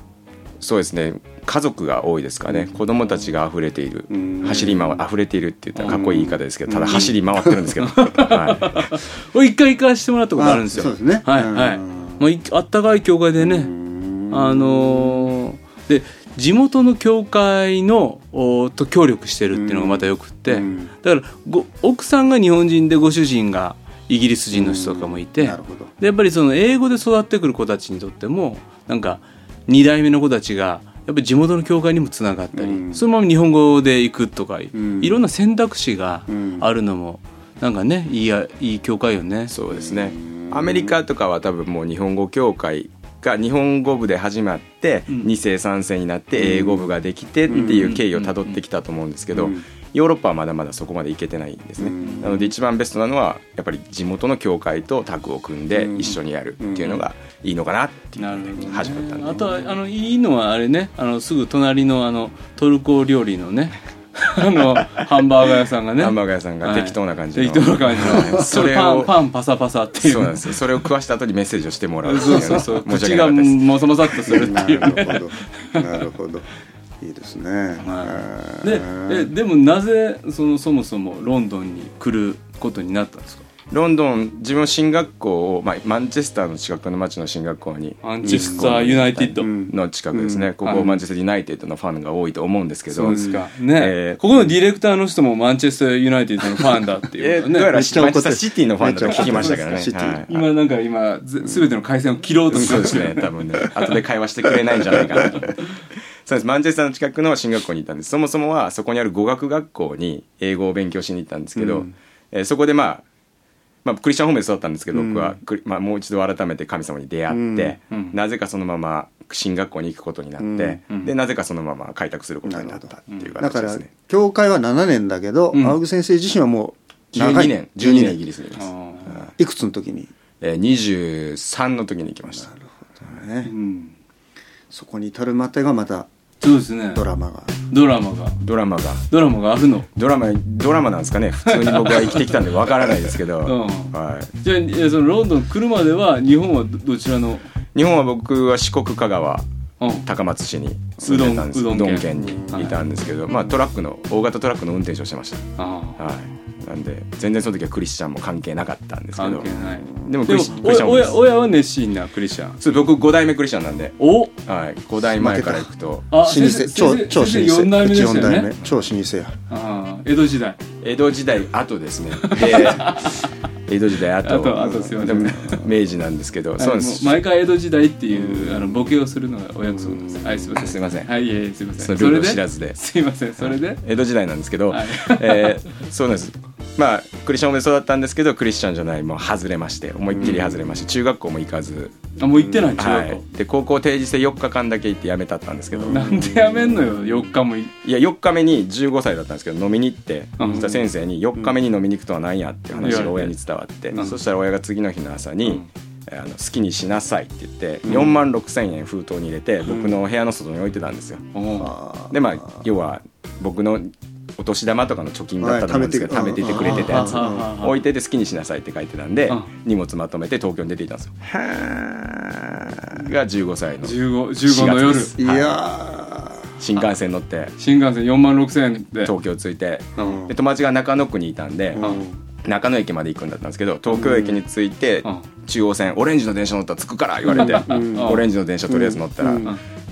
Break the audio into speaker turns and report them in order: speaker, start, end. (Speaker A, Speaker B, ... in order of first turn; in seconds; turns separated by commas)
Speaker A: 0.6-8.9, Speaker B: 2.5-2.8, Speaker B: 4.1-5.0, Speaker B: 5.8-7.5, Speaker C: 7.8-13.7, Speaker B: 10.4-12.2, Speaker B: 13.4-15.3, Speaker C: 14.3-39.5, Speaker B: 19.5-20.9, Speaker B: 24.5-25.9, Speaker B: 32.5-33.0, Speaker B: 34.7-35.2, Speaker B: 36.3-36.7, Speaker A: 39.5-59.4, Speaker B: 39.7-41.0, Speaker B: 46.4-46.9, Speaker B: 47.5-48.0, Speaker C: 47.5-48.6, Speaker B: 49.3-49.6, Speaker B: 51.8-52.5, Speaker C: 52.0-52.5, Speaker B: 55.7-57.0, Speaker C: 58.2-70.6, Speaker A: 66.0-69.2, Speaker A: 70.0-73.7, Speaker C: 72.0-75.9, Speaker B: 72.3-72.6, Speaker B: 74.3-76.5, Speaker B: 77.0-79.3, Speaker C: 77.8-83.5, Speaker A: 83.7-94.2, Speaker C: 88.0-89.5, Speaker B: 88.2-88.7, Speaker B: 89.4-90.5, Speaker C: 90.6-91.0, Speaker C: 92.9-97.8, Speaker B: 93.0-93.4, Speaker A: 97.2-100.3, Speaker B: 97.7-100.3, Speaker C: 99.1-99.6, Speaker C: 100.2-103.2, Speaker B: 101.4-101.8, Speaker A: 102.5-105.6, Speaker B: 102.5-103.1, Speaker B: 105.0-105.3, Speaker A: 106.2-113.0, Speaker B: 111.6-111.9, Speaker A: 113.8-123.9, Speaker B: 114.9-115.4, Speaker B: 117.3-117.8, Speaker C: 117.9-118.2, Speaker B: 120.4-120.9, Speaker B: 122.4-128.2, Speaker C: 123.1-123.3, Speaker C: 125.5-125.8, Speaker A: 127.1-128.7, Speaker C: 128.6-129.3, Speaker B: 129.1-130.1, Speaker A: 130.4-132.5, Speaker B: 132.3-133.6, Speaker C: 133.4-133.9, Speaker B: 134.7-136.1, Speaker C: 136.4-137.0, Speaker B: 136.9-137.6, Speaker C: 137.7-138.4, Speaker A: 138.4-139.1, Speaker C: 139.1-139.9, Speaker A: 140.0-144.3, Speaker C: 141.4-147.5, Speaker A: 147.7-149.5, Speaker C: 149.8-150.1, Speaker A: 150.1-155.4, Speaker C: 151.0-152.8, Speaker C: 155.6-156.0, Speaker A: 156.0-161.2, Speaker C: 159.2-162.6, Speaker B: 159.5-160.8, Speaker A: 162.6-166.1, Speaker C: 164.0-164.3, Speaker B: 165.1-169.3, Speaker C: 166.1-168.5, Speaker C: 169.5-170.6, Speaker A: 170.8-177.2, Speaker C: 172.2-173.3, Speaker C: 174.2-175.6, Speaker B: 174.6-175.7, Speaker C: 176.6-183.8, Speaker B: 178.2-178.9, Speaker B: 179.7-180.6, Speaker A: 180.6-181.1, Speaker A: 181.8-182.8, Speaker A: 183.8-191.9, Speaker C: 184.7-185.6, Speaker B: 190.1-190.8, Speaker C: 192.2-193.2, Speaker B: 192.4-192.8, Speaker A: 192.8-196.1, Speaker B: 195.7-197.2, Speaker C: 195.9-197.7, Speaker A: 197.8-211.3, Speaker C: 200.4-200.7, Speaker B: 200.4-200.8, Speaker C: 202.8-203.3, Speaker B: 207.8-208.2, Speaker B: 209.6-210.0, Speaker C: 211.3-211.8, Speaker B: 211.6-212.7, Speaker A: 212.1-221.3, Speaker B: 215.4-217.5, Speaker C: 216.4-217.8, Speaker B: 221.3-223.0, Speaker A: 222.9-225.6, Speaker C: 223.8-225.1, Speaker B: 225.2-226.6, Speaker A: 226.6-227.5, Speaker C: 227.6-229.1, Speaker A: 229.1-231.8, Speaker C: 230.0-230.2, Speaker B: 230.0-230.3, Speaker B: 231.7-232.2, Speaker C: 231.8-232.0, Speaker A: 232.4-239.5, Speaker B: 233.9-234.4, Speaker B: 237.3-239.6, Speaker C: 237.3-238.3